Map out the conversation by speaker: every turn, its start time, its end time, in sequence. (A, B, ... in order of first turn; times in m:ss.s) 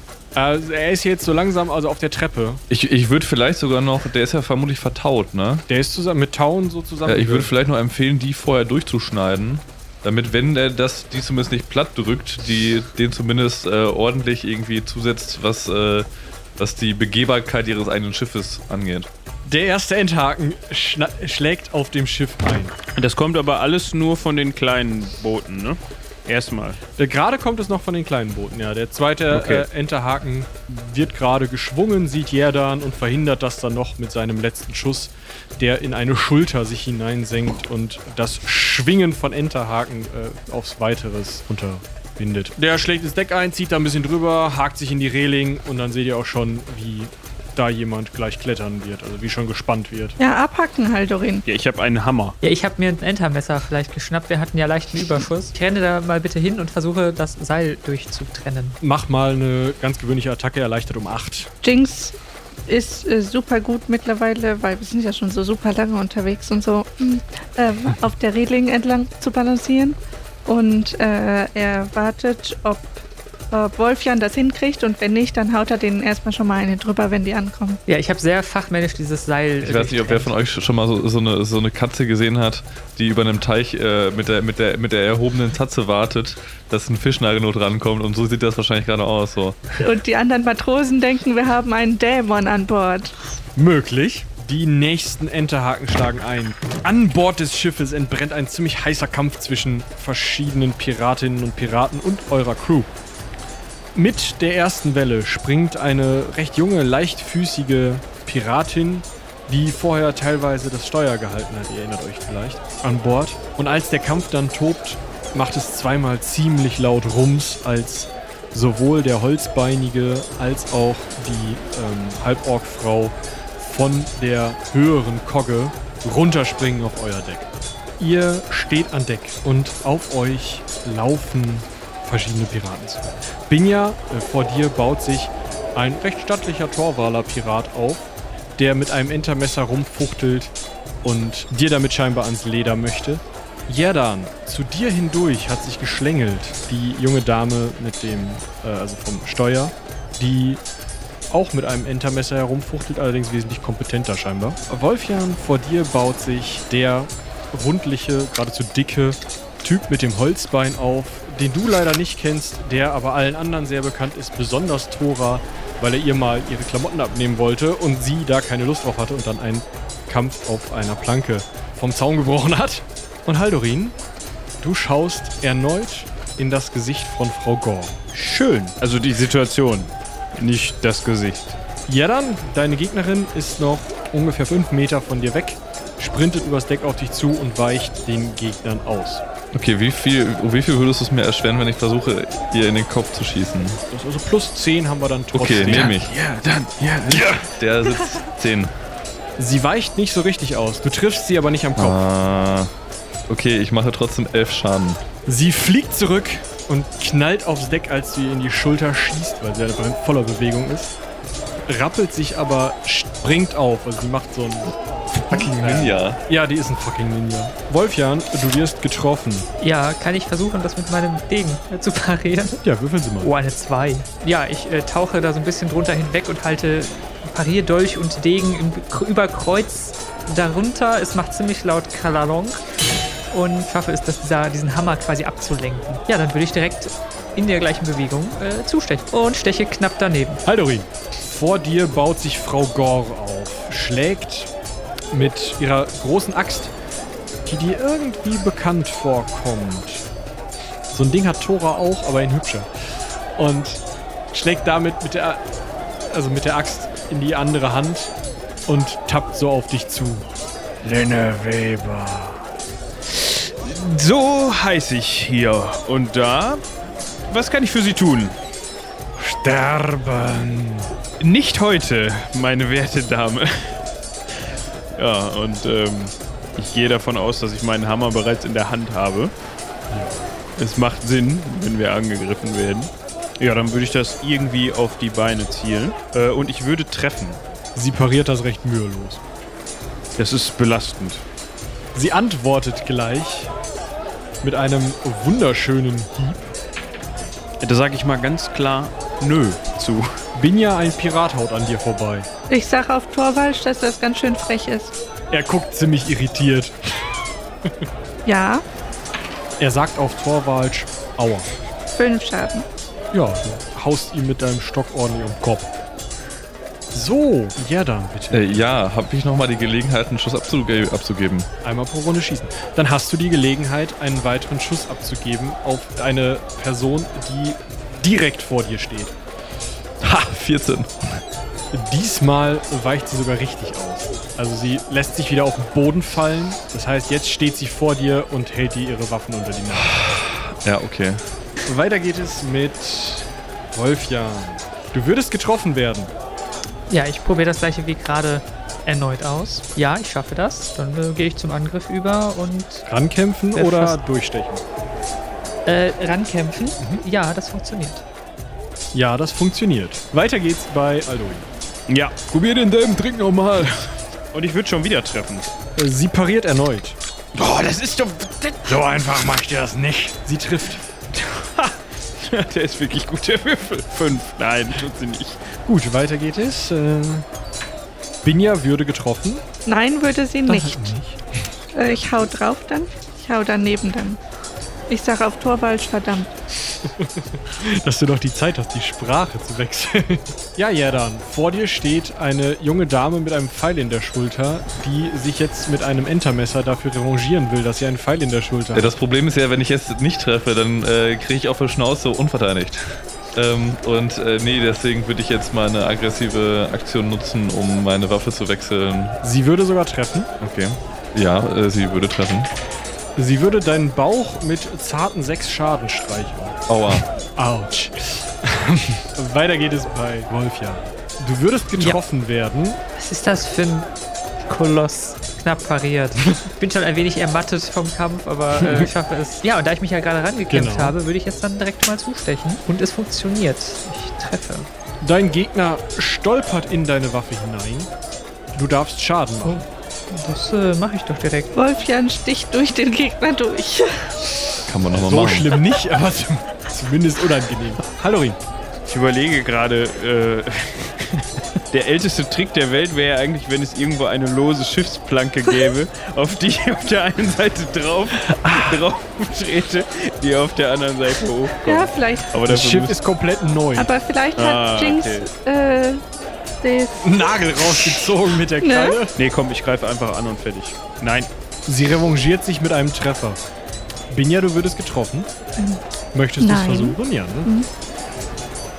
0:00.4-0:02.6 A
0:02.7-0:05.6 B
0:05.7-0:07.5 A
0:07.0-0:16.1 B
0:16.6-0:19.1 B
0:19.4-0:22.7 A
0:23.0-0:26.8 C
0:27.0-0:50.2 A
0:29.3-0:29.6 C
0:50.2-0:51.4 D
0:51.4-0:52.4 C
0:52.4-0:58.8 E
0:58.8-1:01.5 A
1:01.6-1:02.2 D
1:02.7-1:17.8 D
1:17.8-1:20.3 E
1:19.6-1:29.6 B
1:29.8-1:33.1 D
1:33.6-1:42.9 A
1:43.9-2:30.6 A
2:31.3-2:54.0 A
2:54.6-2:58.0 A
2:58.1-3:01.6 C
3:01.9-3:09.2 A
3:09.5-3:13.8 B
3:13.9-3:15.9 A
3:15.3-3:16.1 B
3:15.7-3:17.5 C
3:17.1-3:18.7 B
3:19.4-3:22.0 A
3:21.8-3:22.7 B
3:23.3-3:25.0 B
3:25.2-3:31.0 A
3:31.7-3:39.5 A
3:35.3-3:36.2 B
3:39.6-3:42.6 E
3:42.6-3:43.3 A
3:43.2-3:52.6 E
3:53.3-4:00.4 E
4:00.4-4:04.5 A
4:05.1-4:06.7 A
4:07.4-4:10.0 A
4:10.9-4:15.4 A
4:16.1-4:18.1 A
4:18.7-4:20.3 A
4:20.8-4:22.5 A
4:23.0-4:26.6 C
4:27.3-4:28.4 C
4:29.2-4:30.9 A
4:31.2-4:33.8 C
4:35.0-4:39.3 C
4:39.9-4:40.3 A
4:40.6-4:47.4 C
4:47.7-4:49.2 A
4:50.2-4:51.2 C
4:51.9-4:53.5 A
4:54.4-4:56.5 A
4:57.6-5:00.2 C
5:00.3-5:02.3 A
5:02.5-5:05.0 D
5:05.3-5:07.1 A
5:08.2-5:08.6 D
5:09.6-5:11.5 A
5:11.9-5:12.6 D
5:13.1-5:15.7 A
5:16.9-5:18.7 A
5:18.3-5:21.5 B
5:21.6-5:29.2 A
5:30.0-5:31.2 B
5:31.7-5:40.0 A
5:39.8-5:41.3 B
5:41.7-5:46.1 A
5:46.9-5:52.8 E
5:52.9-5:54.6 A
5:53.5-5:54.0 E
5:55.6-5:58.0 E
5:56.8-5:57.0 A
5:58.9-6:01.5 A
6:01.9-6:02.4 C
6:02.3-6:03.6 A
6:04.3-6:05.5 C
6:05.8-6:07.0 A
6:07.3-6:08.8 C
6:08.7-6:10.9 A
6:11.1-6:15.4 C
6:15.6-6:17.3 A
6:18.2-6:19.4 A
6:19.6-6:20.8 D
6:20.5-6:21.2 A
6:21.7-6:24.2 D
6:24.9-6:26.3 D
6:27.0-6:38.9 A
6:38.7-6:49.2 B
6:49.2-6:50.3 A
6:50.4-6:52.5 B
6:53.2-7:02.8 A
6:56.7-6:57.0 B
7:03.0-7:03.9 E
7:04.4-7:14.7 E
7:10.5-7:11.0 A
7:15.0-7:17.9 A
7:18.5-7:19.6 A
7:19.4-7:21.5 E
7:21.5-7:24.2 D
7:24.7-7:25.5 B
7:25.0-7:28.4 A
7:28.9-7:43.0 C
7:41.6-7:42.3 D
7:42.4-7:43.9 A
7:43.8-7:46.0 D
7:44.4-7:45.3 C
7:46.6-7:48.1 D
7:47.0-7:49.1 A
7:48.6-7:49.0 D
7:49.1-7:51.3 C
7:51.7-7:53.4 A
7:54.1-7:55.3 A
7:55.6-7:55.8 D
7:56.1-7:57.5 A
7:56.4-7:57.7 D